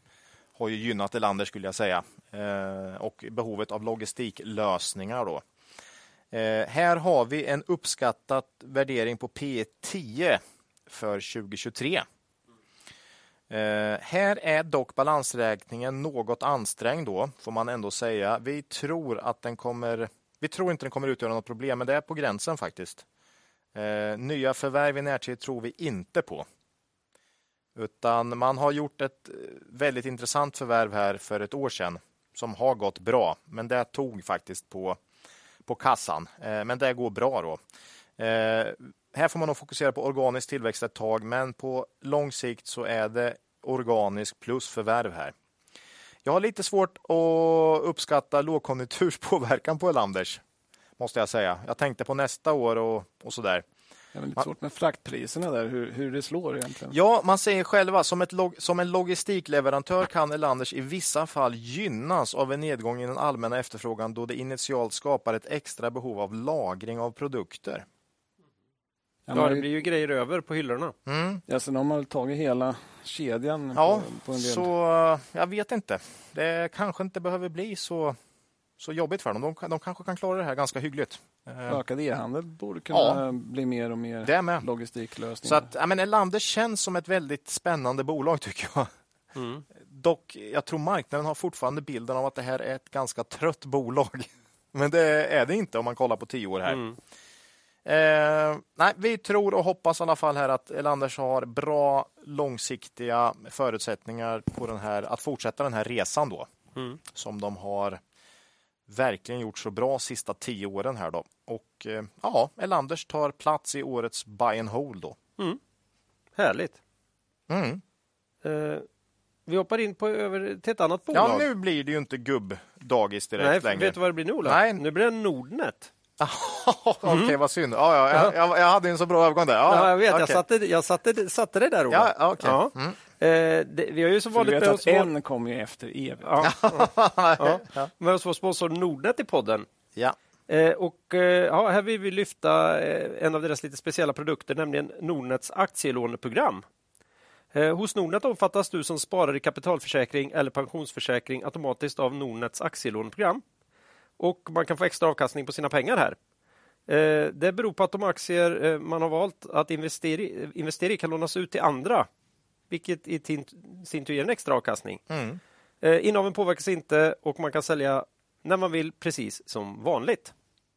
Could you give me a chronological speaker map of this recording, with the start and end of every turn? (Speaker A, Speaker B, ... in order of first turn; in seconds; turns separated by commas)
Speaker A: 0.6-5.4, Speaker A: 6.3-12.1, Speaker A: 13.5-23.0, Speaker A: 23.7-26.4, Speaker A: 27.8-35.0, Speaker A: 35.6-37.6, Speaker A: 38.2-45.3, Speaker A: 46.2-50.4, Speaker A: 51.0-53.6, Speaker B: 54.1-56.9, Speaker A: 56.9-67.8, Speaker B: 69.3-69.7, Speaker C: 69.3-70.9, Speaker A: 71.1-71.4, Speaker B: 71.5-74.7, Speaker A: 73.7-78.2, Speaker A: 78.8-81.8, Speaker B: 81.7-85.7, Speaker A: 82.9-83.2, Speaker A: 84.2-84.6, Speaker A: 85.4-88.9, Speaker C: 89.3-89.6, Speaker A: 89.8-96.8, Speaker C: 96.7-97.0, Speaker A: 97.8-106.5, Speaker A: 107.1-108.0, Speaker A: 108.9-115.2, Speaker C: 116.4-116.8, Speaker A: 117.5-117.8, Speaker C: 118.4-118.8, Speaker C: 119.5-121.5, Speaker A: 121.1-124.8, Speaker C: 123.4-125.9, Speaker A: 126.2-130.4, Speaker C: 127.0-127.3, Speaker C: 129.7-135.1, Speaker A: 131.9-132.9, Speaker B: 134.3-136.3, Speaker C: 136.2-139.7, Speaker A: 136.4-137.9, Speaker C: 140.5-146.6, Speaker C: 147.5-153.4, Speaker C: 154.2-156.2, Speaker C: 156.9-162.1, Speaker C: 162.7-165.0, Speaker A: 165.1-165.4, Speaker C: 165.8-170.3